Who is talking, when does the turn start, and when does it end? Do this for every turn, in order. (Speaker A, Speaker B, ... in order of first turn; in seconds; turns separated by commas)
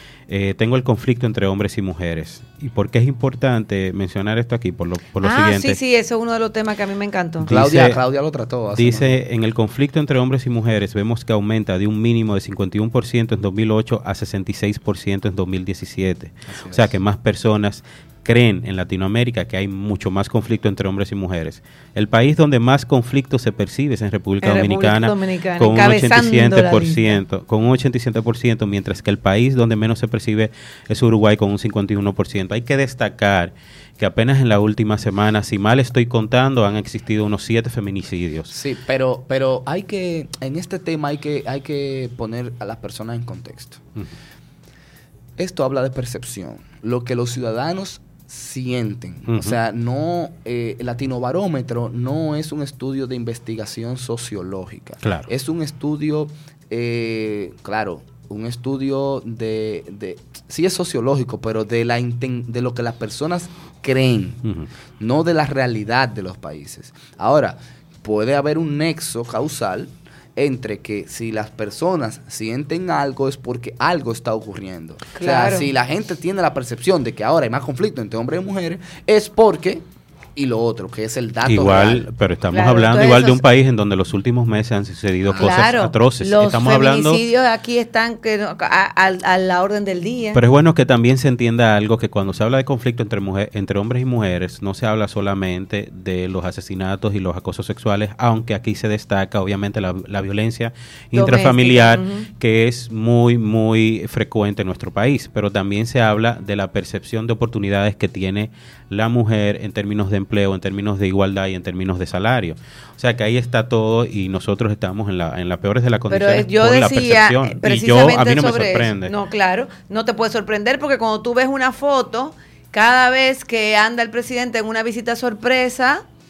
Speaker A: 0.3-5.8, Speaker B: 5.2-7.5, Speaker A: 7.4-8.0, Speaker C: 7.5-9.1, Speaker A: 8.7-38.5, Speaker C: 16.5-16.9, Speaker B: 24.4-27.2, Speaker C: 38.5-43.8, Speaker C: 45.4-64.4, Speaker A: 49.3-49.5, Speaker A: 55.0-55.3, Speaker C: 65.0-79.8, Speaker B: 75.1-75.7, Speaker C: 80.3-82.1, Speaker A: 81.4-87.2, Speaker B: 82.5-83.4, Speaker C: 85.2-85.5, Speaker B: 85.4-90.4, Speaker A: 90.3-119.1, Speaker B: 101.1-102.3, Speaker B: 116.1-126.0